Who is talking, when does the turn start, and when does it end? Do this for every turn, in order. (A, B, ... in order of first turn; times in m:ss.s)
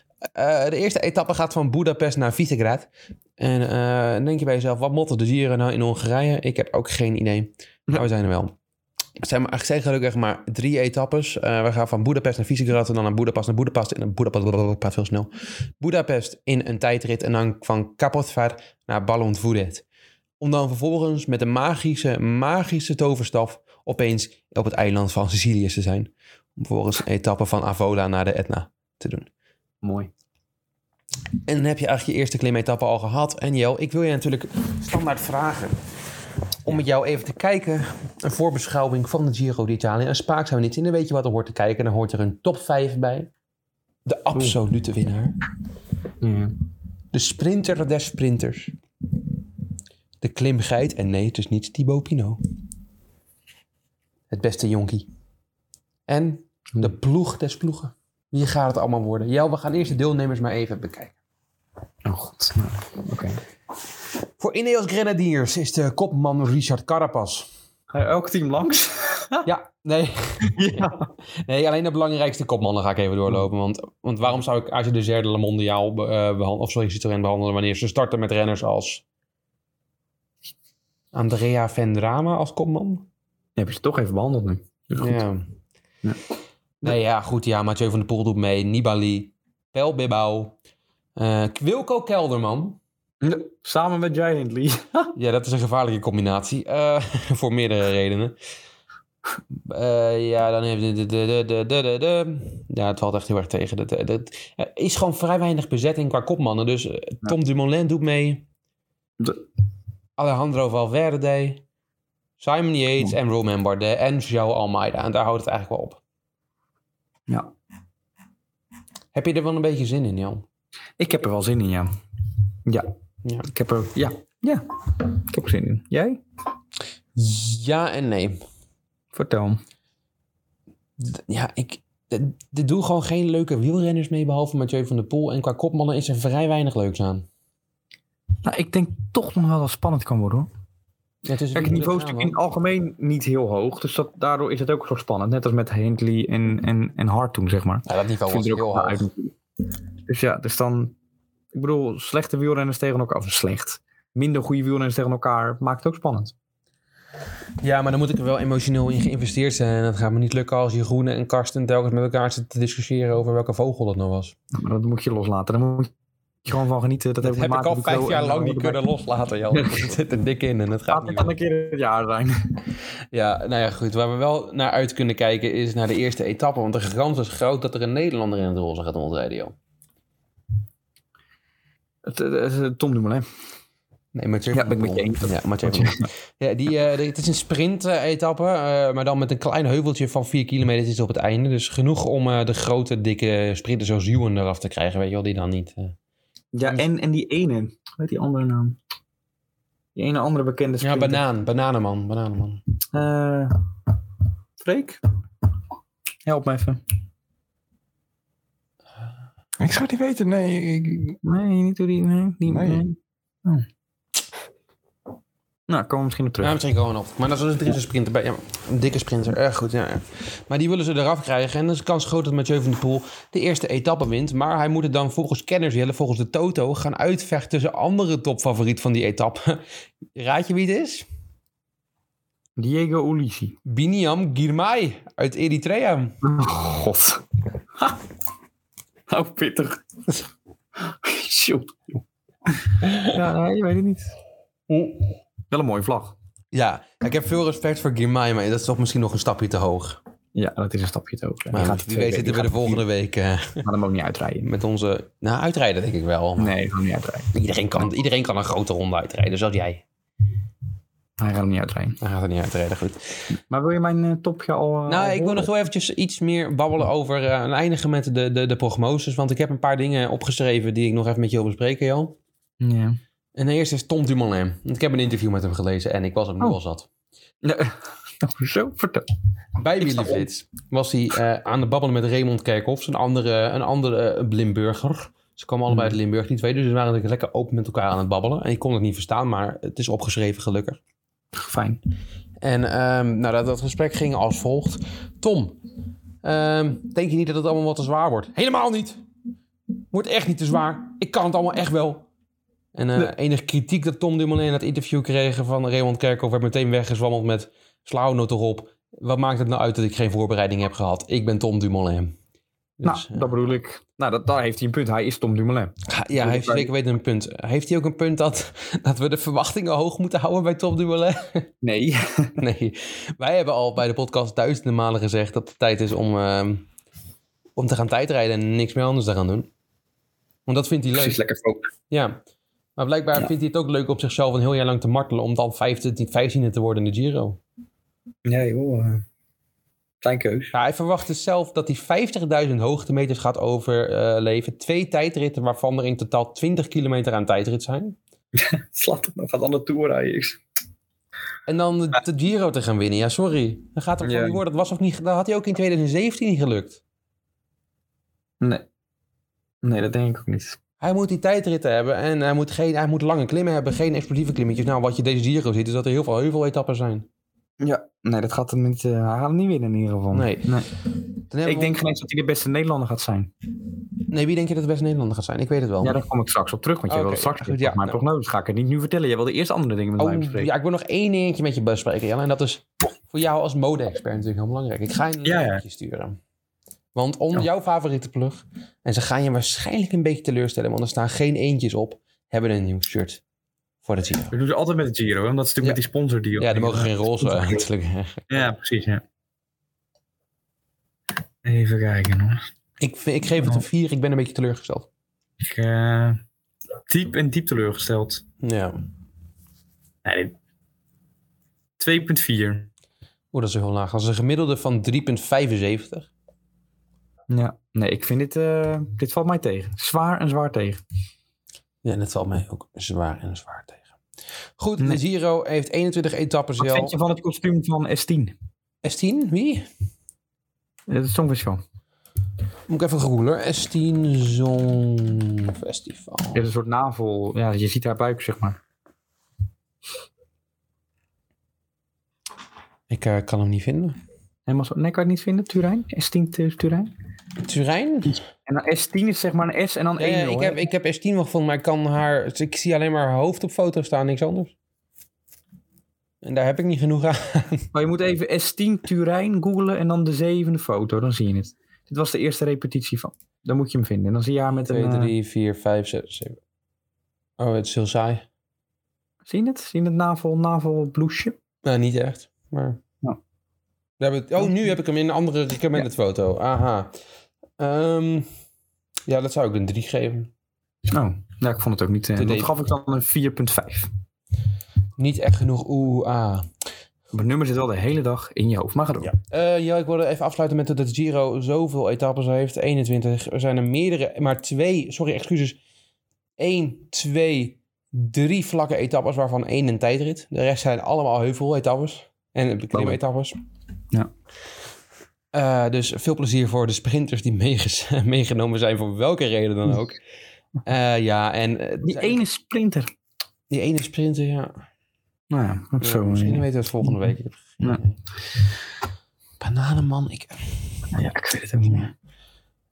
0:00.3-0:08.5 A
0:09.2-0:15.3 A
0:15.8-0:19.8 A
0:20.4-0:29.3 A
0:29.8-0:30.1 B
0:31.4-0:35.8 A
0:36.6-0:43.3 A
0:44.0-0:45.3 A
0:46.2-0:46.5 B
0:47.1-0:48.7 A
0:50.2-0:52.4 A
0:54.3-0:55.1 A
0:56.1-1:01.1 A
1:02.0-1:03.4 B
1:04.4-1:07.5 A
1:07.9-1:09.5 B
1:09.4-1:19.0 A
1:10.4-1:11.1 B
1:21.1-1:23.0 A
1:23.6-1:25.2 B
1:24.9-1:25.5 A
1:26.8-1:30.5 A
1:31.2-1:32.8 A
1:33.2-1:35.1 B
1:35.2-1:38.3 A
1:39.6-1:48.4 A
1:50.2-1:51.6 A
1:52.4-1:56.0 A
1:59.1-2:00.4 A
2:01.0-2:01.9 B
2:03.2-2:03.5 A
2:03.5-2:06.2 B
2:07.2-2:08.4 A
2:09.1-2:09.6 B
2:11.0-2:17.3 A
2:18.4-2:20.5 B
2:21.2-2:22.4 A
2:21.5-2:29.3 B
2:27.8-2:29.1 A
2:30.1-2:30.9 B
2:31.5-2:36.3 B
2:37.6-2:44.4 A
2:44.5-2:45.9 B
2:46.4-2:48.8 B
2:47.2-2:51.3 A
2:49.5-2:50.0 B
2:50.9-2:52.4 B
2:53.1-2:59.5 A
3:02.0-3:03.2 B
3:04.1-3:16.0 A
3:04.5-3:06.1 B
3:16.5-3:18.8 B
3:19.9-3:21.2 B
3:20.8-3:22.6 A
3:22.9-3:23.6 B
3:24.6-3:25.0 B
3:26.2-3:26.8 B
3:29.6-3:31.2 C
3:31.2-3:33.7 B
3:32.4-3:32.8 C
3:35.7-3:36.6 B
3:36.4-3:49.6 A
3:50.1-3:51.1 A
3:52.6-3:53.6 B
3:53.6-3:56.2 A
3:56.2-3:57.2 B
3:57.8-3:58.0 B
3:59.1-3:59.8 B
4:00.8-4:04.1 B
4:02.8-4:03.1 A
4:04.7-4:05.1 A
4:05.5-4:06.1 B
4:06.5-4:10.0 A
4:10.3-4:12.8 B
4:11.5-4:13.6 A
4:13.6-4:14.4 B
4:14.4-4:16.5 A
4:16.4-4:17.3 B
4:17.3-4:19.8 A
4:21.2-4:22.0 B
4:22.0-4:23.3 A
4:23.3-4:25.5 B
4:24.9-4:32.2 A
4:32.6-4:33.0 B
4:33.4-4:36.9 A
4:37.4-4:39.1 B
4:39.6-4:50.8 A
4:39.8-4:40.3 B
4:45.7-4:46.0 B
4:51.3-4:51.8 B
4:52.4-4:55.6 A
4:56.2-4:59.0 A
4:59.9-5:02.0 A
5:02.7-5:12.1 A
5:12.8-5:13.3 A
5:12.8-5:16.7 B
5:15.9-5:21.5 A
5:21.6-5:22.4 B
5:22.4-5:26.6 A
5:27.6-5:29.5 A
5:30.5-5:31.2 A
5:30.9-5:31.6 B
5:31.9-5:32.2 A
5:32.8-5:37.4 A
5:38.2-5:39.0 B
5:40.0-5:40.5 B
5:40.5-5:48.0 A
5:48.3-5:50.4 B
5:51.5-5:56.8 A
5:54.0-5:54.4 B
5:58.4-5:58.6 B
5:59.6-6:00.6 B
6:00.8-6:07.1 A
6:07.6-6:10.7 B
6:10.1-6:10.6 A
6:11.3-6:11.8 A
6:11.4-6:13.3 B
6:14.1-6:16.0 A
6:15.8-6:20.5 B
6:16.9-6:18.0 A
6:20.0-6:26.2 A
6:25.2-6:25.6 B
6:26.9-6:33.2 A
6:33.8-6:34.3 A
6:34.3-6:37.6 B
6:36.4-6:38.3 A
6:38.3-6:39.0 B
6:41.4-6:42.4 B
6:42.8-6:44.9 A
6:45.4-6:46.2 B
6:46.9-6:48.2 B
6:48.4-6:48.8 A
6:50.0-6:50.3 B
6:51.8-6:52.7 B
6:53.3-6:56.1 A
6:57.3-7:00.8 B
7:01.8-7:03.8 A
7:04.6-7:06.9 A
7:06.6-7:08.3 B
7:08.8-7:09.6 A
7:10.9-7:11.6 B
7:12.7-7:16.4 A
7:16.3-7:18.6 B
7:22.9-7:24.0 A
7:24.5-7:26.9 B
7:27.4-7:28.2 A
7:28.3-7:30.6 B
7:30.0-7:34.5 A
7:36.2-7:37.7 A
7:37.7-7:45.1 B
7:44.7-7:46.4 A
7:47.4-7:48.2 A
7:49.2-7:51.4 B
7:51.6-7:52.8 A
7:54.0-7:56.9 A
7:57.6-7:58.3 A
7:59.1-8:00.3 A
8:00.9-8:03.9 B
8:02.2-8:02.5 A
8:05.0-8:06.5 A
8:07.1-8:09.1 B
8:09.0-8:15.6 A
8:16.4-8:23.4 A
8:22.7-8:23.0 B
8:25.3-8:30.0 A
8:30.6-8:32.2 A
8:31.8-8:32.9 B
8:33.5-8:34.6 A
8:35.3-8:37.1 B
8:35.8-8:38.0 A
8:39.4-8:40.4 A
8:40.9-8:41.9 B